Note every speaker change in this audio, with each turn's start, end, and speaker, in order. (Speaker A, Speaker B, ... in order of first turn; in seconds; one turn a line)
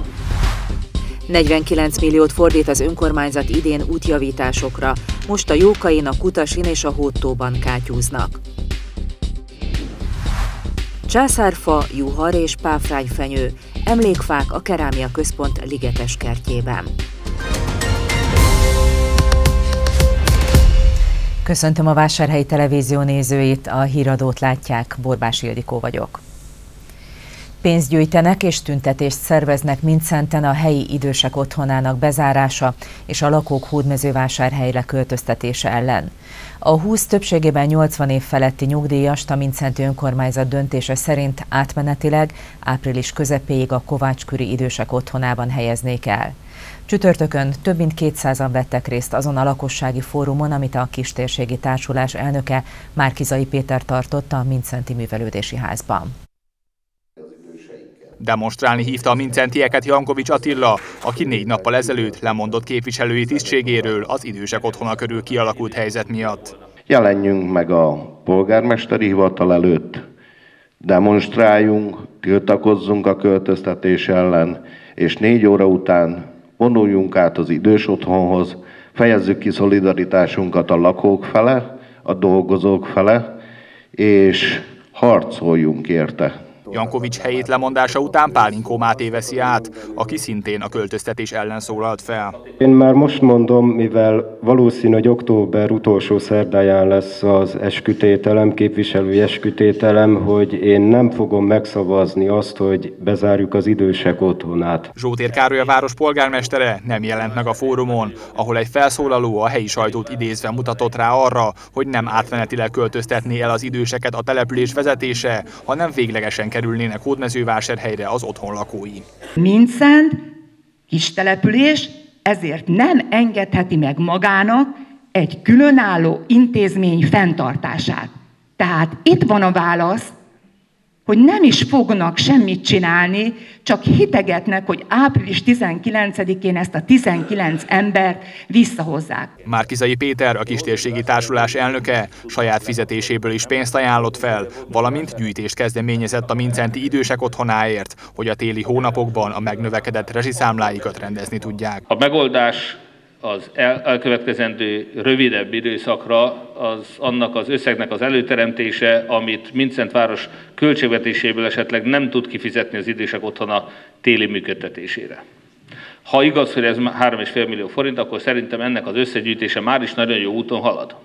Speaker A: 1.3-8.4
Speaker A: 11.1-16.9
Speaker A: 21.4-26.2
Speaker A: 27.6-36.1
Speaker A: 36.6-46.4
Speaker A: 46.9-56.1
Speaker B: 58.2-66.5
Speaker C: 66.9-70.0
Speaker C: 70.8-83.3
Speaker C: 84.0-86.4
Speaker B: 86.7-92.4
Speaker D: 92.6-104.9
Speaker B: 105.0-119.0
Speaker E: 119.4-120.2
Speaker E: 120.9-130.1
Speaker E: 131.1-139.3
Speaker B: 139.5-151.8
Speaker F: 151.9-152.7
Speaker F: 153.3-165.2
Speaker F: 166.1-170.9